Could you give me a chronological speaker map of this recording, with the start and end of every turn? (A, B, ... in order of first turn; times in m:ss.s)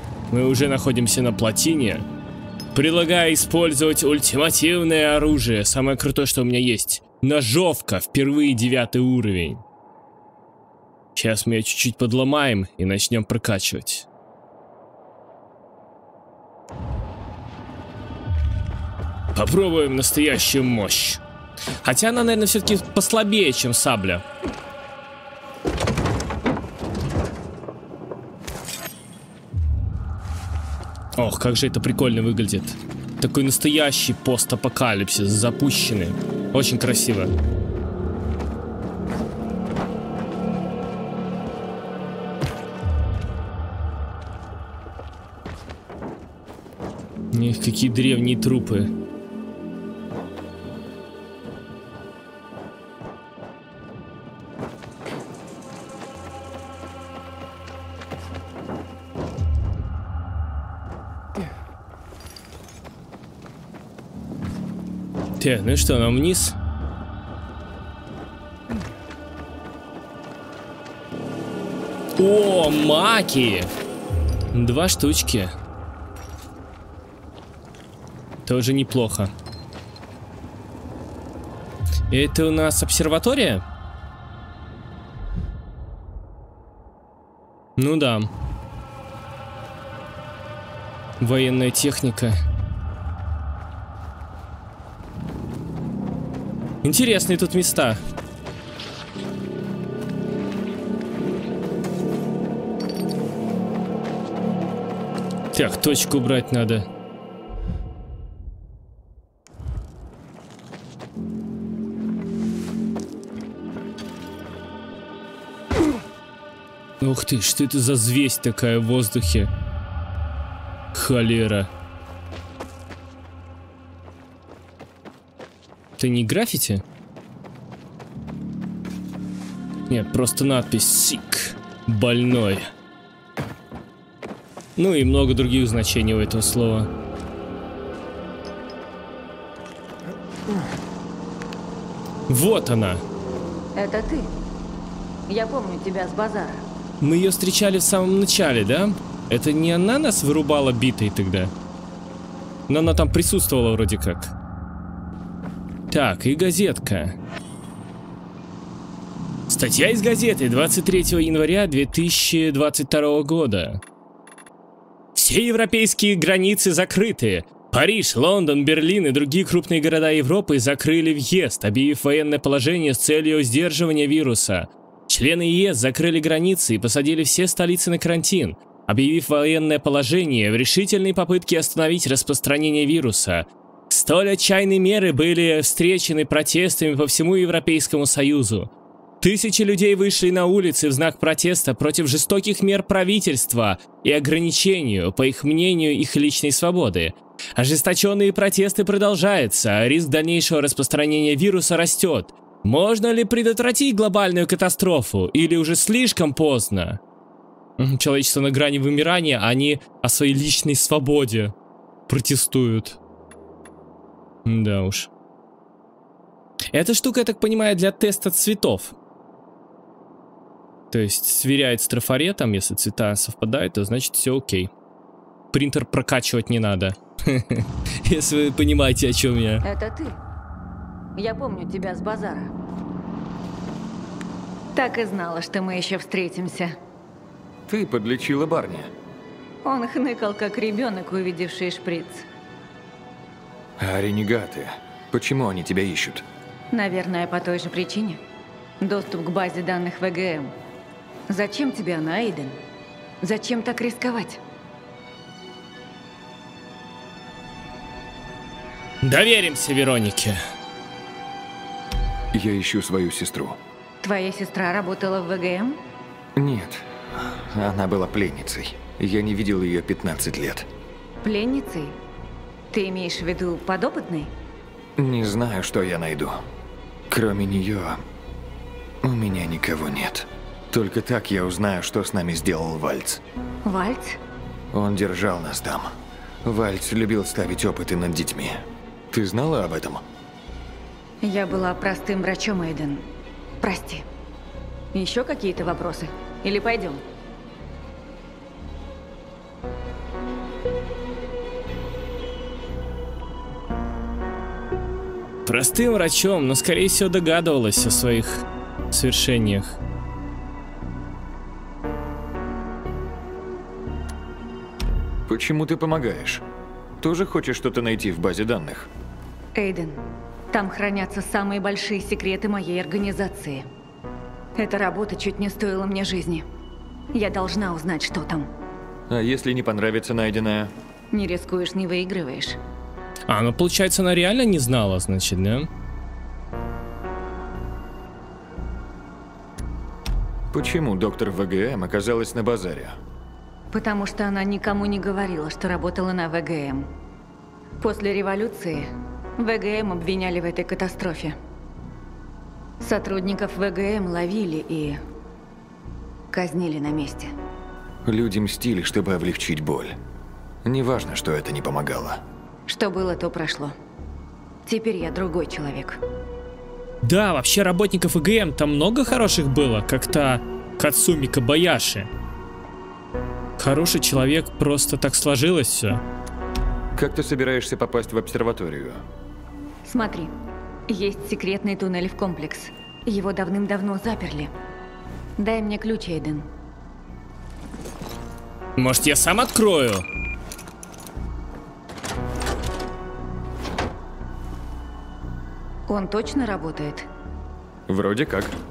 0:00.3-0:02.0 A
0:02.7-0:09.6 A
0:11.1-0:14.0 A
0:19.3-0:21.2 A
0:21.8-0:24.2 A
0:31.2-0:37.3 A
0:47.3-0:48.9 A
1:05.4-1:06.5 A
1:12.2-1:13.7 A
1:14.5-1:15.5 A
1:18.4-1:19.3 A
1:22.1-1:23.6 A
1:27.8-1:28.3 A
1:31.2-1:32.4 A
1:36.8-1:38.0 A
1:45.5-1:46.8 A
1:57.0-1:59.5 A
2:00.9-2:01.7 A
2:06.0-2:06.8 A
2:09.9-2:12.7 A
2:14.8-2:16.9 A
2:22.3-2:23.0 A
2:23.8-2:24.3 B
2:25.3-2:26.6 B
2:27.0-2:31.5 A
2:32.7-2:34.3 A
2:35.9-2:37.2 A
2:39.5-2:43.8 A
2:45.1-3:08.7 A
3:09.2-3:27.0 A
3:27.8-3:31.5 A
3:32.1-3:33.0 A
3:34.4-3:35.1 A
3:36.7-3:38.9 A
3:40.9-3:44.7 A
3:45.5-3:49.6 A
3:49.6-3:50.2 B
3:51.2-3:52.5 B
3:54.7-3:56.8 B
3:57.7-3:58.9 C
3:59.6-4:02.3 B
4:03.8-4:06.2 C
4:06.7-4:08.2 B
4:08.8-4:10.5 B
4:11.3-4:12.6 B
4:13.2-4:14.4 B
4:19.0-4:20.4 A
4:22.3-4:23.6 C
4:24.0-4:25.8 B
4:26.4-4:30.7 C
4:31.2-4:32.0 B
4:32.7-4:34.3 B
4:35.0-4:36.4 C
4:37.1-4:38.0 C
4:39.0-4:43.2 C
4:43.6-4:44.2 B
4:44.7-4:50.0 C
4:51.2-4:53.1 B
4:53.6-4:54.0 B
4:54.9-4:57.0 B
5:05.4-5:09.7 A
5:15.3-5:16.4 C
5:17.0-5:18.9 C
5:19.5-5:23.7 B
5:24.6-5:26.4 B
5:27.1-5:28.5 B
5:29.1-5:30.7 C
5:31.1-5:32.6 B
5:33.3-5:35.7 A
5:40.5-5:43.0 C
5:43.7-5:46.9 B
5:47.8-5:51.4 B
5:52.8-5:55.0 B
5:56.3-5:57.3 B
5:58.0-6:00.0 C
6:00.6-6:02.2 C
6:02.7-6:03.7 B
6:04.6-6:06.0 B
6:07.0-6:12.1 A
6:13.6-6:16.0 A
6:16.9-6:19.0 C
6:19.8-6:20.3 B
6:20.9-6:24.5 B
6:25.4-6:26.5 B
6:28.8-6:30.0 A
6:35.9-6:37.1 B
6:37.9-6:38.5 C